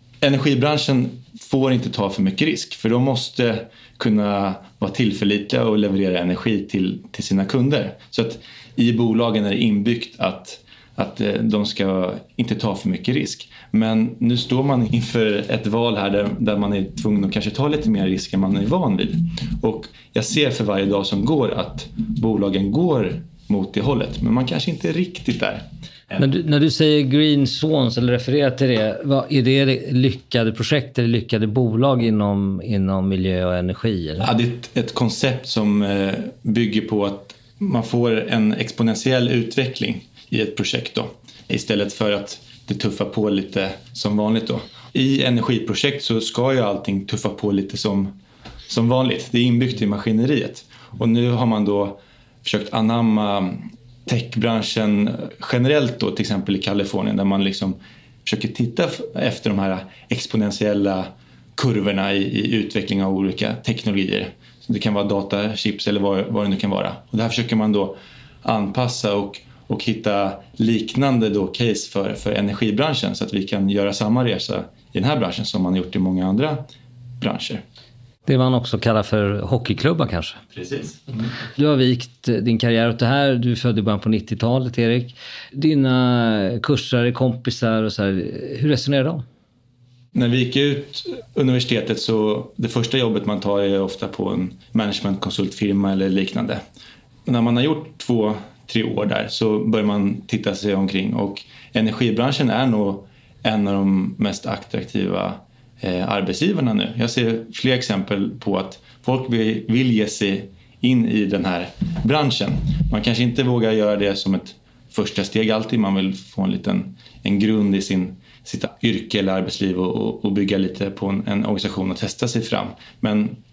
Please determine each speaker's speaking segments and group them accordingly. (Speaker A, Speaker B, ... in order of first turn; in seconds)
Speaker A: 0.2-26.2, 34.2-48.1, 48.7-76.6, 77.2-77.6, 80.5-81.0, 90.1-96.6, 97.2-123.4
Speaker B: 26.2-34.3, 78.2-80.4, 81.5-89.2